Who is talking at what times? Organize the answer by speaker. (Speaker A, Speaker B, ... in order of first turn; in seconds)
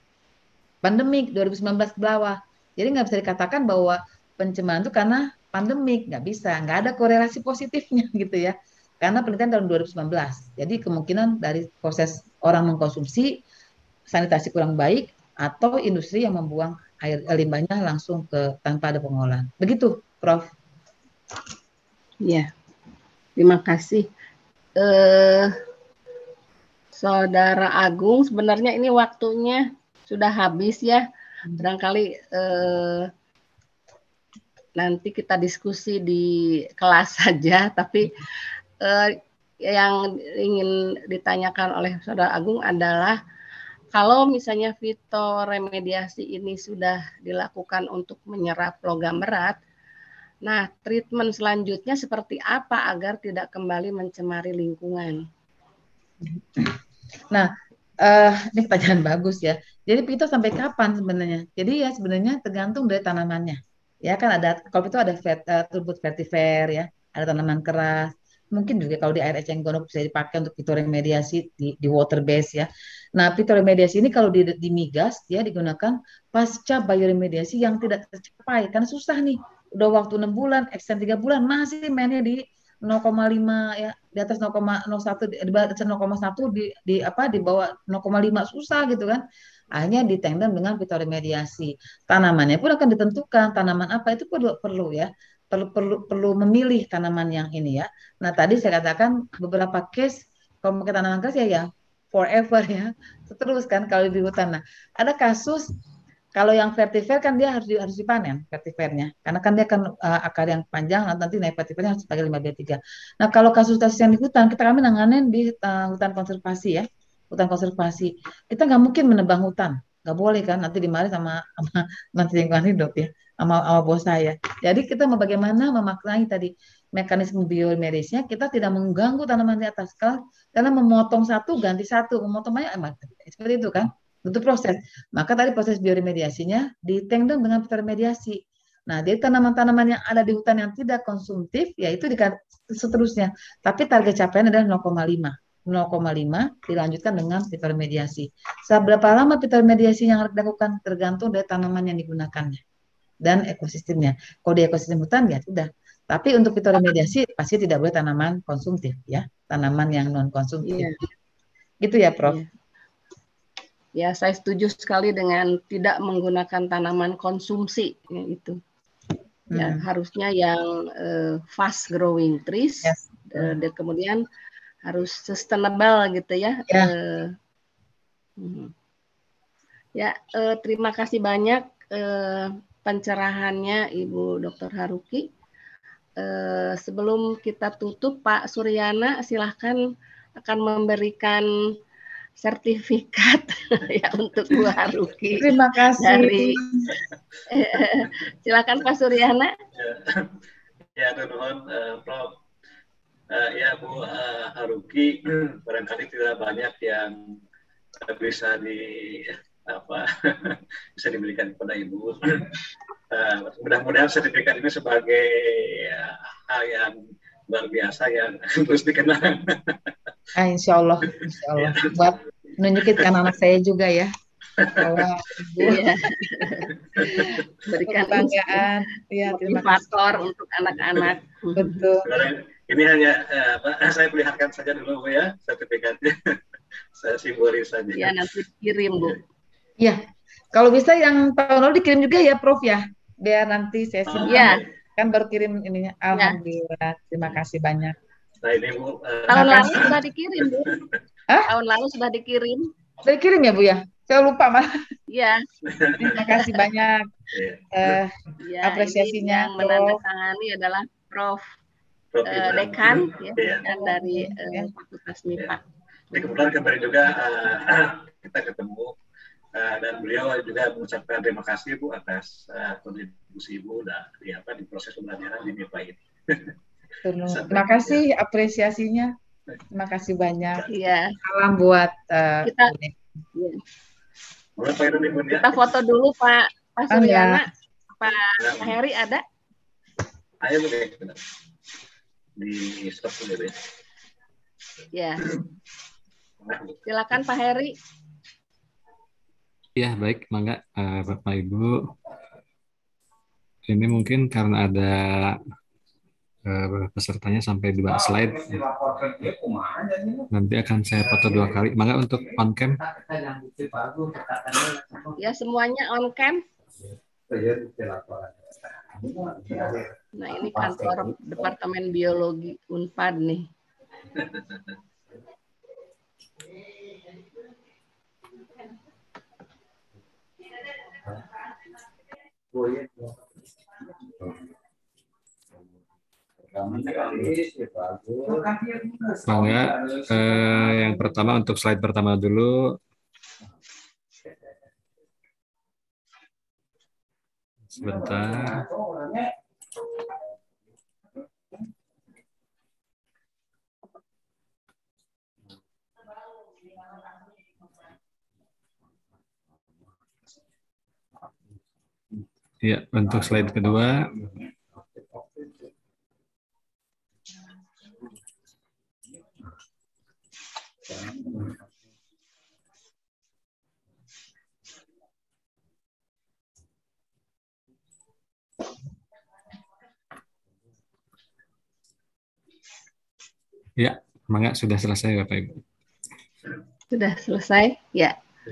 Speaker A: 0.8-13.4, 14.1-20.5, 56.2-56.8, 58.0-89.2, 89.7-105.7, 106.3-152.6, 153.2-160.9, 161.8-162.4, 169.5-169.8, 172.8-173.6, 195.4-196.9, 220.3-224.1, 224.7-230.1, 231.5-232.1, 240.5-247.9, 249.3-249.8, 253.0-254.7, 256.0-257.1, 257.7-260.0, 263.7-264.7, 277.0-279.1, 279.7-280.7, 281.2-283.0, 286.9-287.4
Speaker B: 22.2-22.5, 23.4-24.1, 24.8-25.5, 26.9-31.0, 31.6-33.1, 34.8-38.2, 38.8-43.2, 43.9-49.6, 50.4-55.2, 160.6-161.0, 163.9-168.6, 169.5-174.2, 174.8-177.3, 178.4-178.7, 179.9-185.3, 186.2-189.8, 190.3-191.5, 192.4-195.5, 196.0-196.6, 197.5-199.5, 225.6-228.7, 229.3-231.8, 238.0-239.2, 244.3-244.6, 246.1-246.4, 249.3-250.7, 251.4-252.7, 255.1-255.4, 256.4-256.6, 258.4-261.4, 262.2-265.6, 280.7-281.2, 282.4-282.7, 283.3-283.6, 285.4-287.4, 288.0-289.2, 294.9-295.3, 296.8-297.7, 315.2-316.4, 320.1-323.5, 386.9-388.1
Speaker C: 199.8-200.3, 200.9-202.3, 203.3-207.4, 208.0-212.5, 213.1-216.9, 217.5-219.8, 221.5-222.1, 222.7-223.1, 224.6-225.1, 226.9-227.2, 232.0-236.4, 236.9-238.2, 244.1-244.7, 248.4-250.9, 255.6-256.2, 257.3-257.9, 262.1-263.6, 266.1-268.9, 269.5-276.5, 277.3-278.0, 284.6-285.6, 288.4-288.7, 290.4-291.2, 292.4-293.6, 296.4-296.8, 324.2-324.5
Speaker D: 299.8-301.8, 303.7-305.4, 306.4-309.3, 310.3-312.8, 317.3-318.1, 336.9-337.3, 339.1-342.8, 347.7-348.6, 362.6-364.1, 383.8-385.6